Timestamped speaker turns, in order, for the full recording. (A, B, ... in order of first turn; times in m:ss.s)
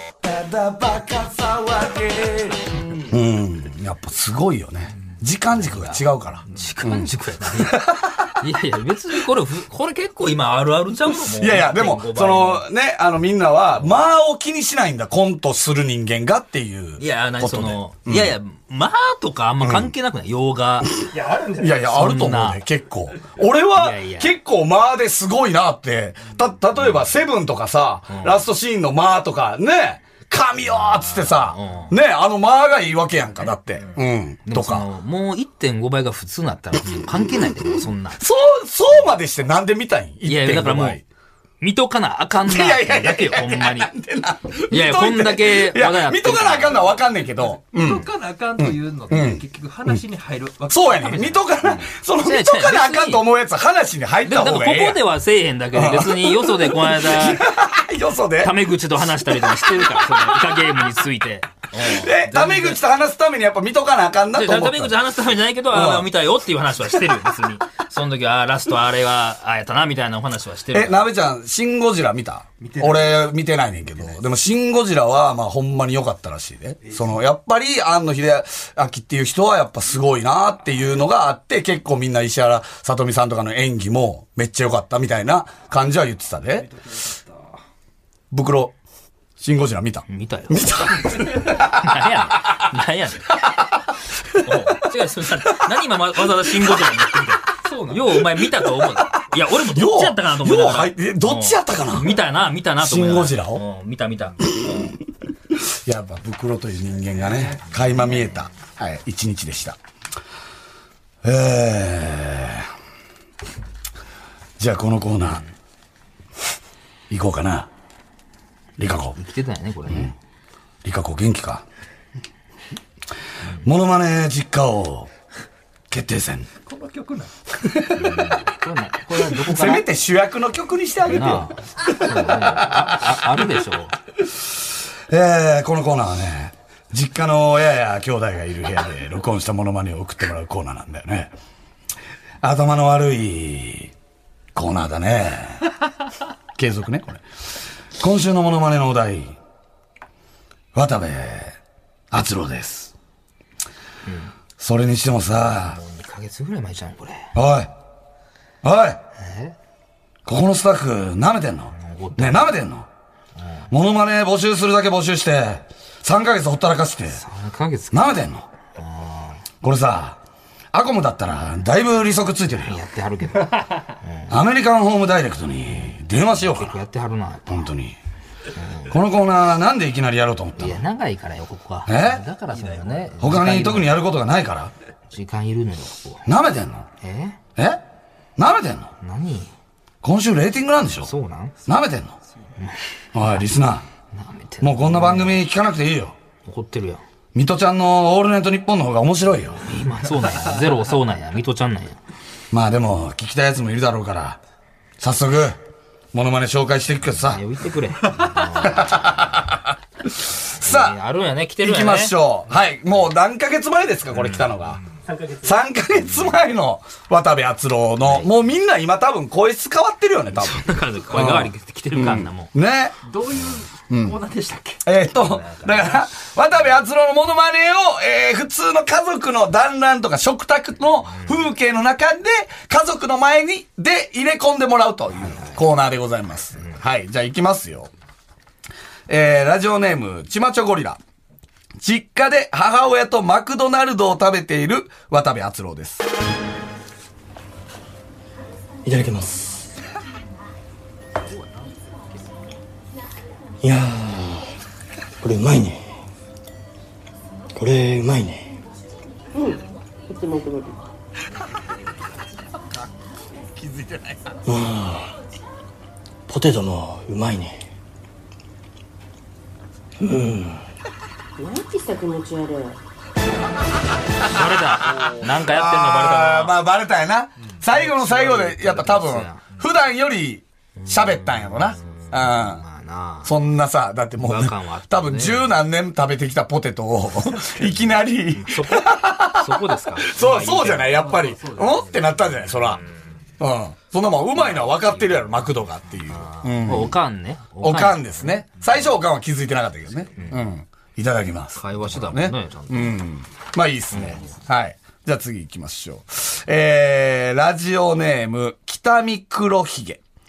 0:00.2-0:08.3 A
0:06.5-0:07.8 B
0:08.4-0:12.7 B
0:11.1-0:18.3 A
0:17.0-0:21.0 B
0:19.6-0:19.9 A
0:21.1-0:21.8 C
0:21.6-0:34.9 A
0:21.8-0:22.6 B
0:23.7-0:24.3 B
0:28.1-0:28.4 B
0:30.8-0:31.9 B
0:34.4-0:38.2 B
0:38.2-0:41.0 A
0:40.2-0:41.0 B
0:41.6-0:43.9 B
0:42.4-0:48.0 A
0:44.7-0:46.9 B
0:47.6-0:51.4 C
0:48.6-0:50.0 A
0:50.7-0:55.1 A
0:51.7-0:53.2 B
0:54.2-0:57.4 B
0:55.7-1:00.5 A
0:58.4-1:02.8 B
1:01.7-1:05.0 A
1:04.3-1:11.1 B
1:05.7-1:06.1 A
1:10.7-1:26.7 A
1:12.6-1:13.4 C
1:16.8-1:17.2 C
1:26.5-1:27.5 C
1:28.3-1:28.8 A
1:29.4-1:32.0 A
1:30.1-1:33.4 B
1:34.4-1:44.8 B
1:37.6-1:38.0 C
1:38.4-1:42.2 A
1:42.8-1:43.6 A
1:44.5-1:45.0 A
1:45.5-1:49.8 A
1:47.2-1:47.8 C
1:51.2-1:52.7 A
1:54.6-1:55.4 A
1:57.1-1:57.7 A
1:58.8-1:59.2 A
1:59.2-2:00.1 B
2:00.8-2:01.6 A
2:03.6-2:05.1 A
2:05.9-2:06.5 A
2:06.6-2:07.3 C
2:07.6-2:08.4 A
2:08.0-2:09.9 B
2:09.3-2:13.2 A
2:11.0-2:14.0 B
2:15.1-2:21.3 A
2:22.4-2:23.9 A
2:24.5-2:25.7 A
2:26.6-2:27.2 A
2:28.0-2:29.4 A
2:30.7-2:31.6 A
2:32.1-2:32.9 A
2:34.0-2:34.3 B
2:34.6-2:35.8 A
2:35.5-2:37.3 B
2:37.3-2:37.7 A
2:38.6-2:39.0 A
2:39.2-2:39.5 B
2:40.2-2:42.9 A
2:41.7-2:42.5 B
2:43.4-2:43.7 B
2:43.7-2:47.2 A
2:47.1-2:48.2 B
2:47.9-2:48.5 A
2:48.8-2:49.4 B
2:49.6-2:50.2 A
2:50.7-2:52.8 A
2:52.6-2:54.3 B
2:54.3-2:56.8 A
2:56.4-2:57.7 B
2:57.5-2:58.0 A
2:58.6-2:58.9 B
2:58.9-3:00.8 A
3:00.6-3:03.9 B
3:01.8-3:02.2 A
3:02.5-3:03.1 C
3:03.2-3:04.7 A
3:05.1-3:06.3 B
3:06.2-3:06.9 A
3:07.0-3:07.4 B
3:07.6-3:07.8 A
3:08.4-3:08.9 A
3:09.0-3:09.5 B
3:10.0-3:11.1 A
3:11.0-3:11.5 B
3:11.6-3:12.2 A
3:13.1-3:13.9 A
3:14.1-3:15.4 B
3:14.6-3:16.2 A
3:16.4-3:17.0 B
3:17.3-3:19.6 A
3:19.6-3:22.0 B
3:22.5-3:24.4 A
3:25.0-3:25.6 A
3:26.1-3:27.4 A
3:27.2-3:29.5 B
3:28.5-3:31.0 A
3:30.6-3:32.2 B
3:31.6-3:34.8 A
3:34.2-3:34.5 B
3:35.4-3:43.0 A
3:36.1-3:36.3 B
3:38.0-3:38.3 B
3:40.3-3:42.5 B
3:43.0-3:44.8 C
3:43.9-3:44.2 A
3:44.8-3:57.9 A
3:45.1-3:46.0 B
3:55.3-3:55.6 B
3:59.1-4:01.0 A
4:01.8-4:06.1 A
4:08.8-4:09.7 D
4:13.6-4:14.5 D
4:15.2-4:15.8 D
4:17.6-4:18.6 D
4:19.3-4:20.8 E
4:23.5-4:24.4 A
4:24.4-4:25.1 D
4:26.3-4:27.6 D
4:30.0-4:30.6 D
4:31.4-4:32.8 E
4:34.3-4:36.6 B
4:34.4-4:42.6 A
4:37.7-4:39.4 B
4:40.8-4:43.3 B
4:43.2-4:52.8 A
4:44.2-4:45.5 B
4:48.3-4:51.1 B
4:50.9-4:52.3 C
4:53.4-4:57.0 A
4:54.5-4:55.1 B
4:56.1-4:58.4 B
4:57.6-5:10.0 A
5:01.6-5:03.0 B
5:03.9-5:04.2 B